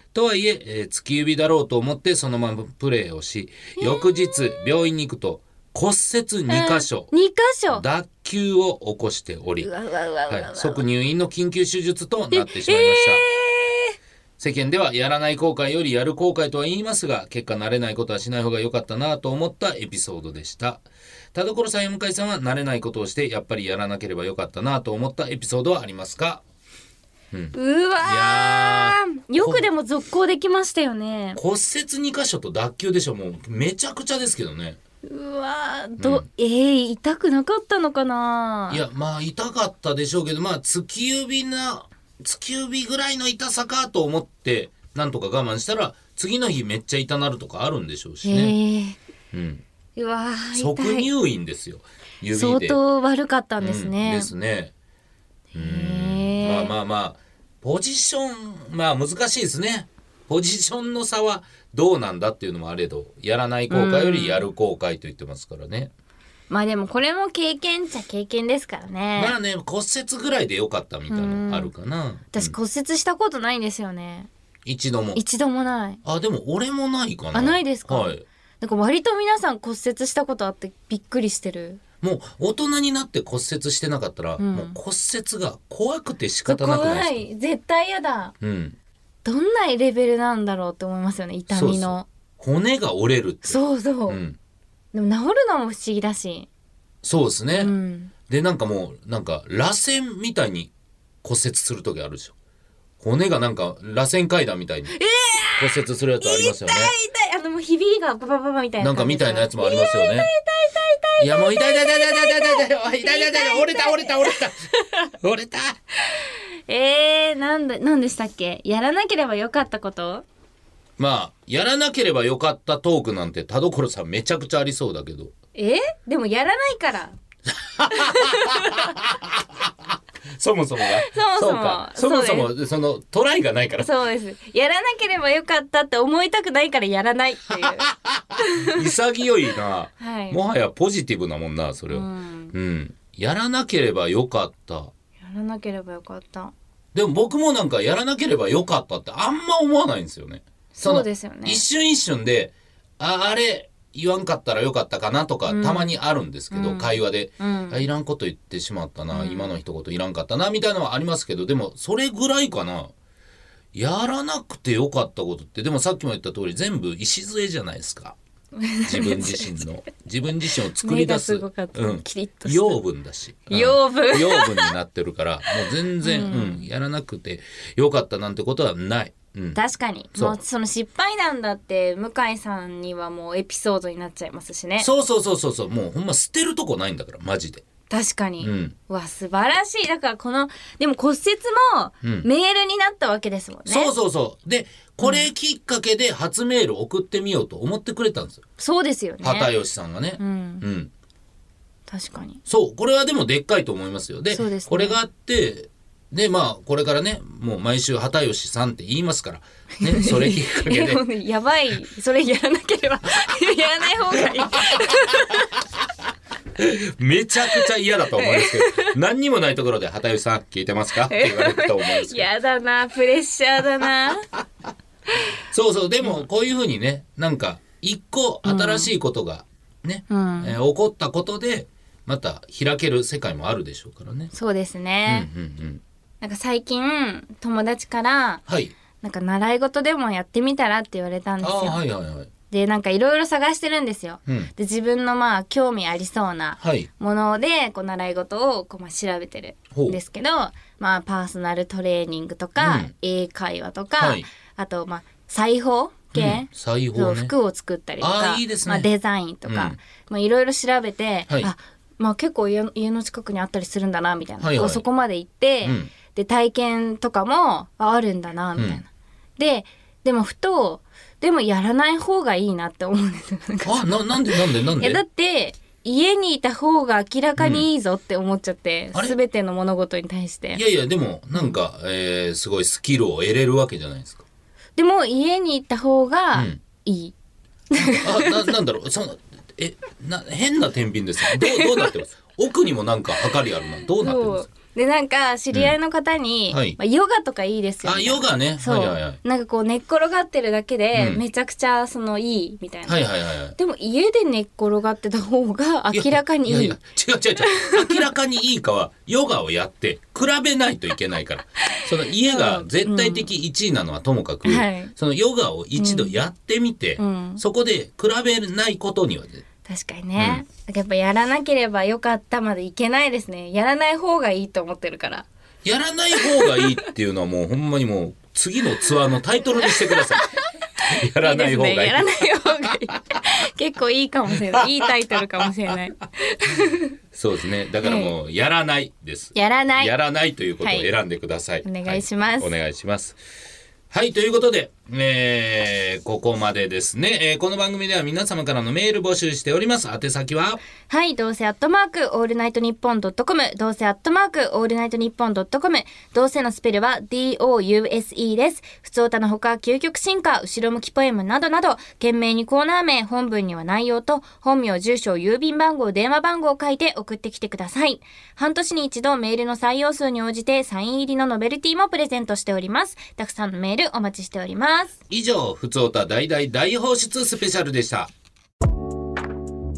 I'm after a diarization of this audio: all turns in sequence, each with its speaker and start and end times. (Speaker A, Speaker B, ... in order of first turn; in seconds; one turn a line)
Speaker A: 0.1-7.1
Speaker B: 3.8-4.6
Speaker B: 6.5-7.8
Speaker A: 7.7-9.7
Speaker B: 9.6-10.8
Speaker A: 10.3-13.2
Speaker B: 12.3-13.9
Speaker A: 14.4-26.4
Speaker A: 27.3-29.6
Speaker B: 27.5-31.4
Speaker A: 31.4-34.8
Speaker B: 35.0-38.8
Speaker A: 36.0-36.2
Speaker A: 38.7-48.5
Speaker B: 48.2-49.0
Speaker A: 49.3-49.6
Speaker B: 50.0-51.1
Speaker A: 50.5-52.8
Speaker B: 52.3-54.3
Speaker A: 53.6-54.7
Speaker B: 55.5-56.7
Speaker A: 55.5-65.9
Speaker B: 63.7-64.4
Speaker B: 66.5-69.3
Speaker A: 69.2-72.5
Speaker B: 71.1-71.7
Speaker B: 72.3-74.3
Speaker A: 74.6-75.2
Speaker B: 75.2-76.0
Speaker A: 76.0-78.2
Speaker B: 77.3-81.8
Speaker A: 82.0-87.2
Speaker B: 84.4-84.8
Speaker B: 86.5-88.3
Speaker A: 88.4-88.8
Speaker B: 89.2-92.0
Speaker A: 91.5-94.4
Speaker B: 93.4-94.2
Speaker B: 94.9-96.5
Speaker A: 97.0-97.7
Speaker B: 97.5-98.1
Speaker A: 98.3-100.7
Speaker A: 101.2-102.3
Speaker A: 103.0-104.9
Speaker B: 104.9-115.1
Speaker A: 105.6-106.9
Speaker A: 108.8-110.3
Speaker A: 111.2-114.6
Speaker A: 115.2-115.8
Speaker B: 116.0-120.2
Speaker A: 121.0-125.3
Speaker B: 125.5-127.2
Speaker A: 127.5-133.9
Speaker B: 127.9-128.9
Speaker B: 131.0-132.5
Speaker B: 133.8-138.8
Speaker A: 137.6-144.9
Speaker B: 140.0-140.4
Speaker B: 141.9-142.5
Speaker B: 145.2-146.5
Speaker A: 146.9-162.9
Speaker B: 150.7-151.6
Speaker B: 155.5-155.9
Speaker B: 156.5-157.8
Speaker B: 159.1-159.5
Speaker A: 163.7-168.2
Speaker B: 168.6-169.6
Speaker A: 168.8-179.6
Speaker B: 170.8-172.8
Speaker B: 173.5-174.7
Speaker B: 176.0-176.7
Speaker B: 179.5-184.9
Speaker A: 184.8-187.6
Speaker B: 187.9-193.9
Speaker A: 188.4-188.7
Speaker A: 192.0-192.3
Speaker A: 193.7-198.4
Speaker B: 195.0-195.3
Speaker B: 198.6-199.5
Speaker A: 199.2-200.9
Speaker B: 200.2-200.6
Speaker B: 201.9-202.4
Speaker A: 202.4-211.0
Speaker B: 204.3-205.0
Speaker B: 209.8-215.5
Speaker A: 214.7-215.2
Speaker A: 216.6-222.3
Speaker B: 218.1-218.9
Speaker B: 221.1-224.2
Speaker A: 225.5-234.3
Speaker B: 228.4-228.9
Speaker B: 230.1-230.6
Speaker B: 234.3-235.3
Speaker A: 235.1-235.8
Speaker B: 236.2-238.4
Speaker A: 238.5-238.7
Speaker B: 239.0-241.8
Speaker A: 241.4-242.3
Speaker B: 242.5-268.9
Speaker A: 244.3-244.5
Speaker A: 246.6-246.9
Speaker A: 249.7-250.0
Speaker A: 252.6-252.9
Speaker A: 254.0-254.3
Speaker A: 256.1-257.3
Speaker A: 258.0-258.9
Speaker A: 259.4-259.8
Speaker A: 264.4-264.8
Speaker A: 265.6-265.9
Speaker A: 268.6-268.8
Speaker B: 269.4-280.6
Speaker A: 273.6-275.0
Speaker A: 277.4-277.6
Speaker A: 280.5-284.2
Speaker B: 284.8-287.1
Speaker A: 286.3-286.6
Speaker B: 287.7-288.5
Speaker A: 287.9-294.5
Speaker B: 291.3-291.9
Speaker B: 293.9-306.8
Speaker A: 296.5-296.8
Speaker A: 297.8-299.2
Speaker A: 300.9-301.2
Speaker A: 302.9-303.6
Speaker A: 305.9-319.4
Speaker B: 307.4-308.1
Speaker B: 311.7-313.3
Speaker B: 314.4-314.9
Speaker B: 315.8-316.2
Speaker B: 317.0-317.4
Speaker B: 319.6-325.3
Speaker A: 320.2-320.4
Speaker A: 325.6-332.8
Speaker B: 326.2-326.8
Speaker B: 329.7-330.3
Speaker B: 330.8-336.9
Speaker A: 334.5-335.5
Speaker A: 337.1-343.2
Speaker B: 337.8-338.1
Speaker B: 339.3-339.9
Speaker B: 340.6-340.9
Speaker B: 341.6-342.5
Speaker A: 343.9-350.6
Speaker B: 350.9-374.9
Speaker A: 375.1-378.1